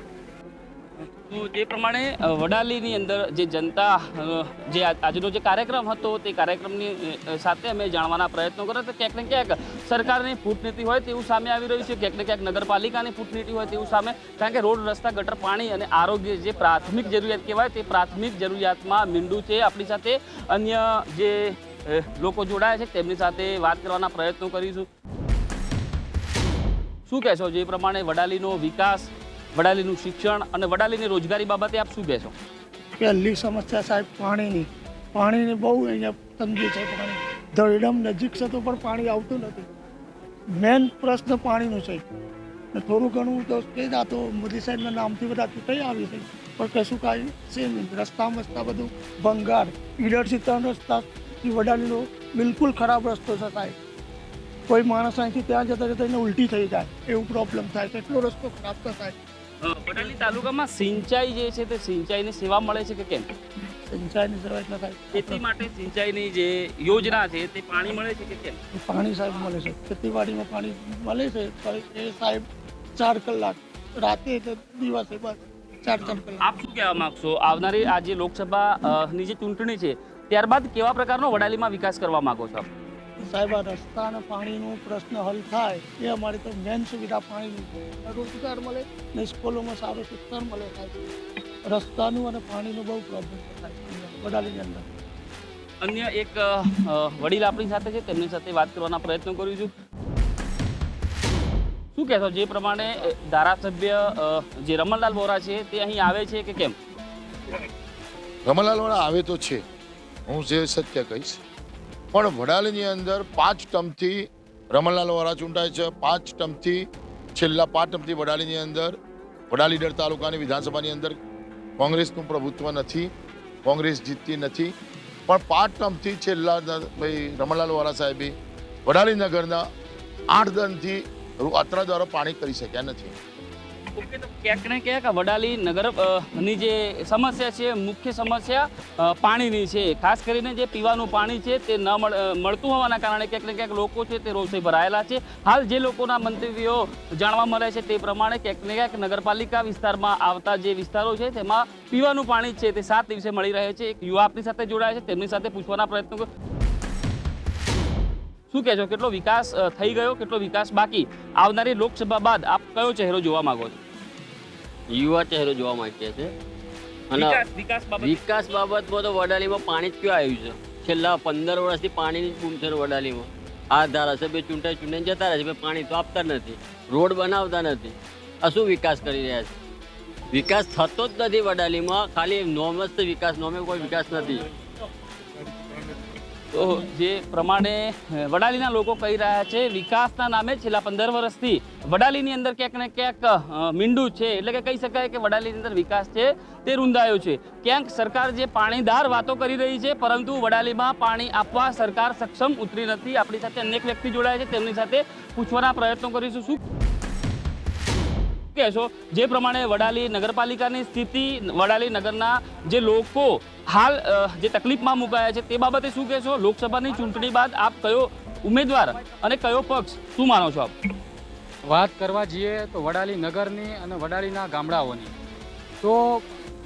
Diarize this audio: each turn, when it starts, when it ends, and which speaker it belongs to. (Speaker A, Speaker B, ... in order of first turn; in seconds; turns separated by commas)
Speaker A: 1.3-24.9, Speaker A: 27.1-32.3, Speaker B: 33.0-39.7, Speaker B: 40.6-42.0, Speaker B: 42.7-53.8, Speaker B: 54.7-59.1, Speaker A: 59.6-63.2, Speaker B: 63.9-65.4, Speaker A: 65.1-68.6, Speaker B: 68.7-72.4, Speaker B: 73.0-76.4, Speaker A: 76.0-82.7, Speaker B: 83.2-91.0, Speaker B: 91.7-94.9, Speaker A: 95.8-99.7, Speaker A: 102.0-106.7, Speaker C: 108.4-109.6, Speaker C: 110.3-111.4, Speaker C: 112.1-119.0, Speaker C: 119.5-121.2, Speaker C: 121.8-123.1, Speaker C: 123.6-124.7, Speaker C: 125.3-128.3, Speaker C: 128.8-129.6, Speaker C: 130.3-133.1, Speaker A: 134.0-156.2, Speaker A: 158.5-163.8, Speaker D: 164.9-166.3, Speaker D: 167.1-167.4, Speaker A: 167.1-168.5, Speaker D: 168.0-179.5, Speaker D: 180.3-184.4, Speaker A: 186.5-206.6, Speaker A: 208.5-220.7, Speaker E: 221.7-225.1, Speaker E: 225.8-226.3